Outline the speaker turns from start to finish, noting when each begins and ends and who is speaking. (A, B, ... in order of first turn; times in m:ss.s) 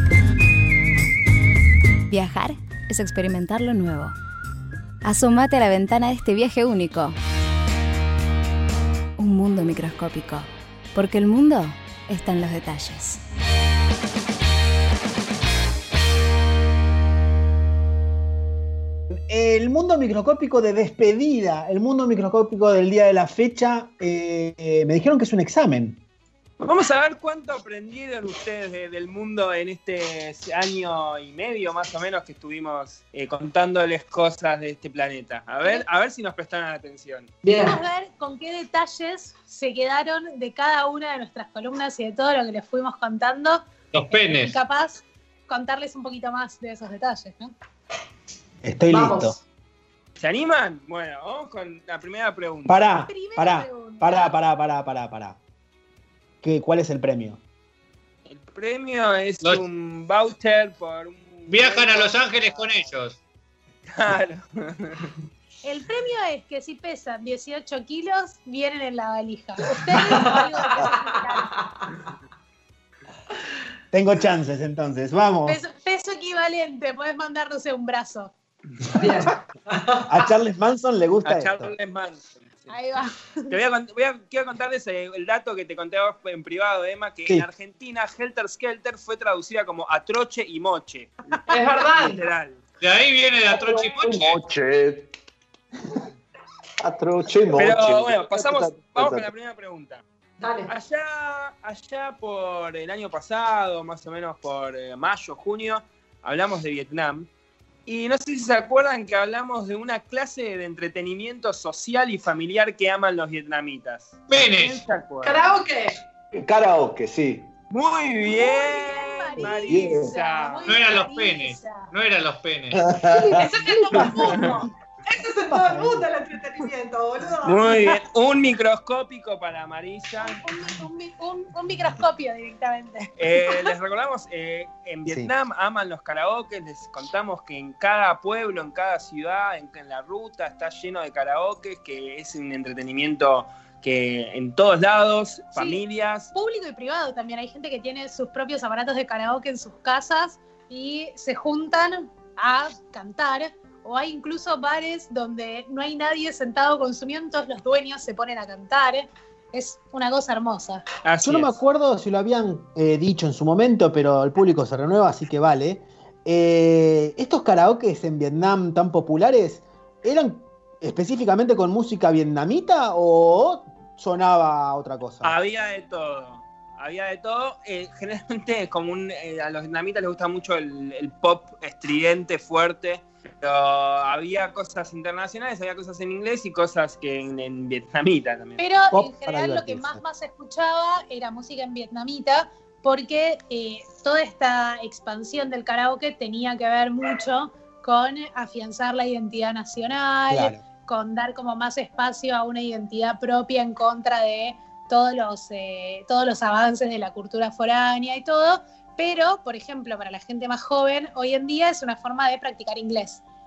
0:02.1-0:04.2 A
0:05.0-0:07.2 A
0:09.2-0:13.2 A
0:19.1-0:26.0 B
0:26.6-0:37.3 C
0:37.4-0:37.8 D
0:37.6-0:47.5 E
0:43.9-0:44.6 F
0:48.6-0:49.4 B
0:48.9-0:49.4 D
0:50.2-0:52.8 C
0:52.7-0:55.4 B
0:53.0-0:54.3 E
0:56.4-0:57.4 B
0:58.3-1:02.7 C
1:01.5-1:03.2 F
1:03.9-1:05.2 C
1:05.6-1:11.6 E
1:13.9-1:15.6 B
1:15.5-1:18.3 E
1:19.0-1:20.1 D
1:20.1-1:21.7 B
1:21.2-1:22.7 C
1:22.7-1:23.5 E
1:23.5-1:31.2 C
1:31.5-1:32.2 D
1:31.8-1:32.6 C
1:32.8-1:34.4 F
1:33.5-1:35.1 G
1:36.8-1:39.3 G
1:37.5-1:40.0 C
1:40.4-1:40.7 D
1:40.7-1:47.3 C
1:47.9-1:55.6 C
1:54.3-1:54.9 F
1:55.2-1:56.0 D
1:56.4-1:57.5 G
1:57.7-2:00.9 C
1:58.3-2:01.9 E
1:59.7-2:00.1 G
2:00.7-2:02.8 F
2:02.7-2:03.4 G
2:03.1-2:04.4 E
2:03.5-2:07.7 D
2:04.0-2:04.6 B
2:04.2-2:04.6 C
2:05.5-2:06.1 B
2:07.4-2:10.4 C
2:10.2-2:13.1 E
2:13.2-2:26.3 C
2:15.1-2:15.3 B
2:25.6-2:40.8 E
2:41.0-2:41.6 C
2:41.2-2:55.3 B
2:55.2-3:08.6 C
3:08.6-3:33.2 E
3:08.9-3:10.0 B
3:20.3-3:20.6 B